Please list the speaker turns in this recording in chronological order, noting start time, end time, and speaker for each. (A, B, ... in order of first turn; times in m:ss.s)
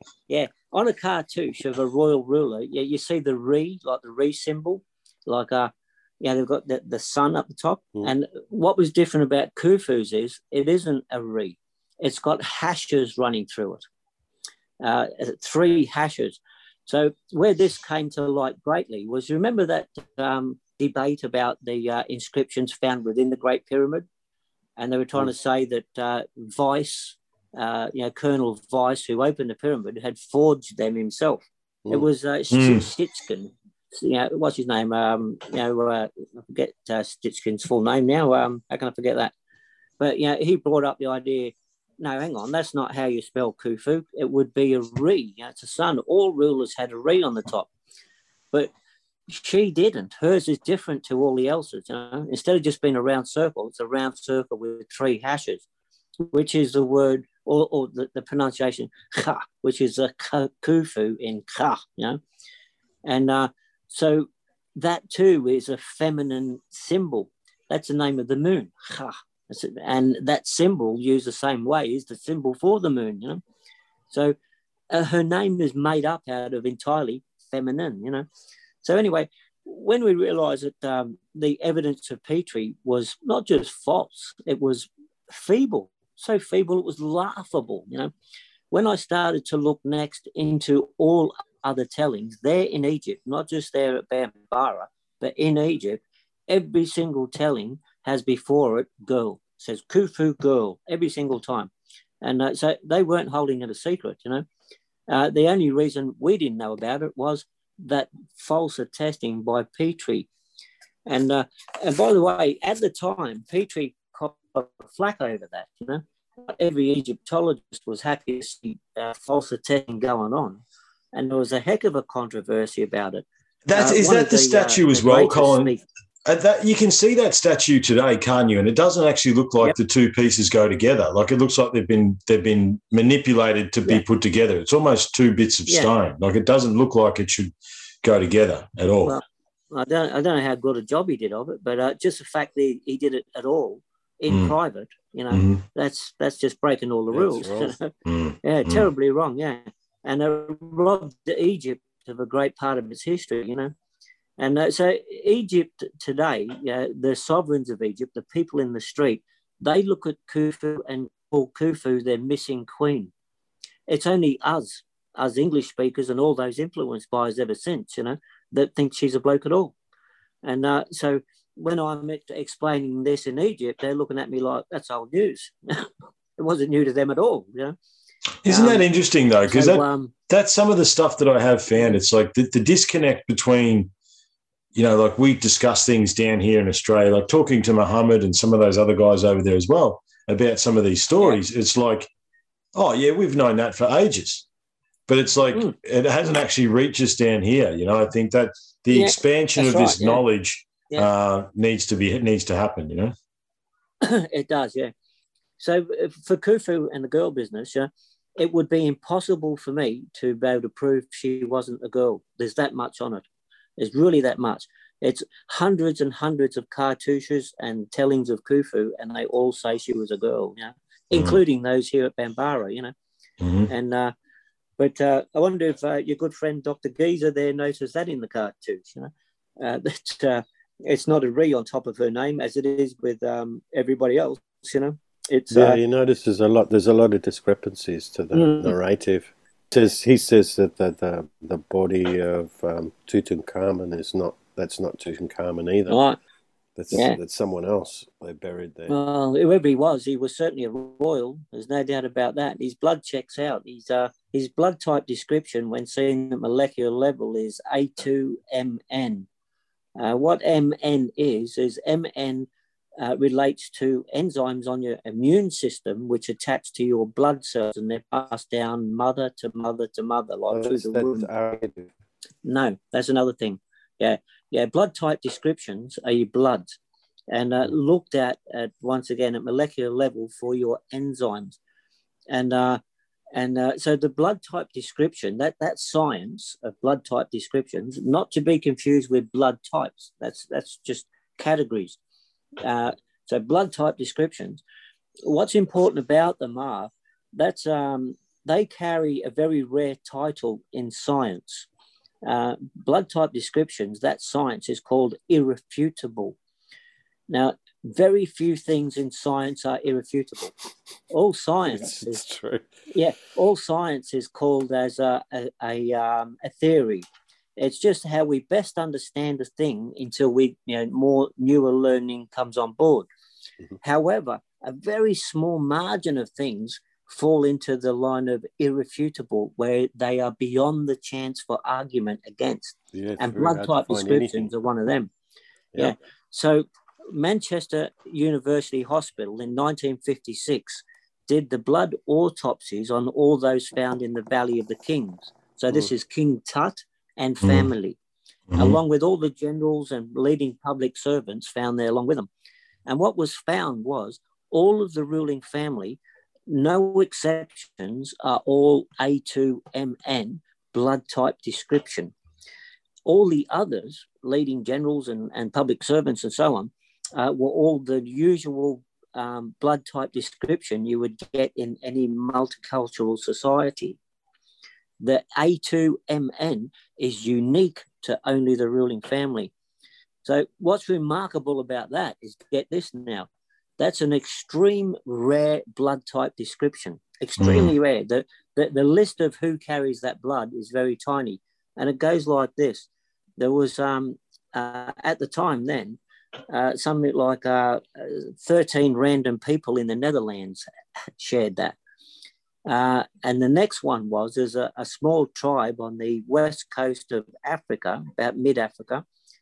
0:00.3-0:13.8 A
0:14.8-0:24.1 A
0:24.8-0:39.3 A
0:32.5-0:32.8 B
0:40.0-0:47.7 A
0:49.3-0:55.6 A
0:56.2-1:02.2 A
1:03.0-1:13.4 A
1:14.9-1:18.3 A
1:18.8-1:28.1 A
1:28.7-1:41.7 A
1:42.2-1:44.5 A
1:45.1-1:50.3 A
1:51.1-2:00.6 A
2:01.1-2:05.8 A
2:03.6-2:05.7 B
2:06.2-2:19.2 B
2:19.0-2:27.9 A
2:24.3-2:24.6 B
2:25.3-2:25.6 B
2:27.1-2:27.8 C
2:28.1-2:28.9 B
2:28.4-2:33.7 A
2:34.4-2:43.1 A
2:43.9-2:49.7 A
2:50.4-2:57.8 A
2:58.4-3:03.9 B
2:58.5-2:58.9 A
2:59.5-3:00.1 A
3:04.7-3:12.1 B
3:12.8-3:14.5 B
3:15.1-3:23.1 B
3:18.9-3:20.2 A
3:24.0-3:24.9 A
3:25.6-3:33.2 A
3:33.8-3:42.9 A
3:41.1-3:41.4 B
3:43.4-3:43.7 B
3:43.7-3:44.1 A
3:44.8-3:55.8 A
3:55.5-4:06.0 C
3:58.3-3:58.8 A
4:05.9-4:06.2 A
4:06.8-4:08.9 C
4:06.9-4:07.2 A
4:08.9-4:19.3 A
4:20.0-4:31.3 A
4:30.5-4:31.9 C
4:32.4-4:36.8 A
4:37.3-4:41.6 A
4:42.3-4:42.8 A
4:43.4-4:52.0 A
4:52.6-4:54.6 A
4:55.2-5:01.7 A
5:02.2-5:06.4 A
5:07.3-5:10.5 A
5:11.1-5:12.2 A
5:11.7-5:12.7 C
5:12.9-5:17.1 A
5:17.6-5:23.1 A
5:23.8-5:35.1 A
5:32.9-5:34.5 C
5:35.8-5:48.0 A
5:47.4-5:47.7 B
5:48.5-5:48.8 B
5:48.6-5:52.3 A
5:52.9-6:02.1 A
6:03.1-6:14.0 A
6:15.0-6:19.5 A
6:20.2-6:41.8 A
6:27.4-6:27.7 B
6:42.7-6:49.0 A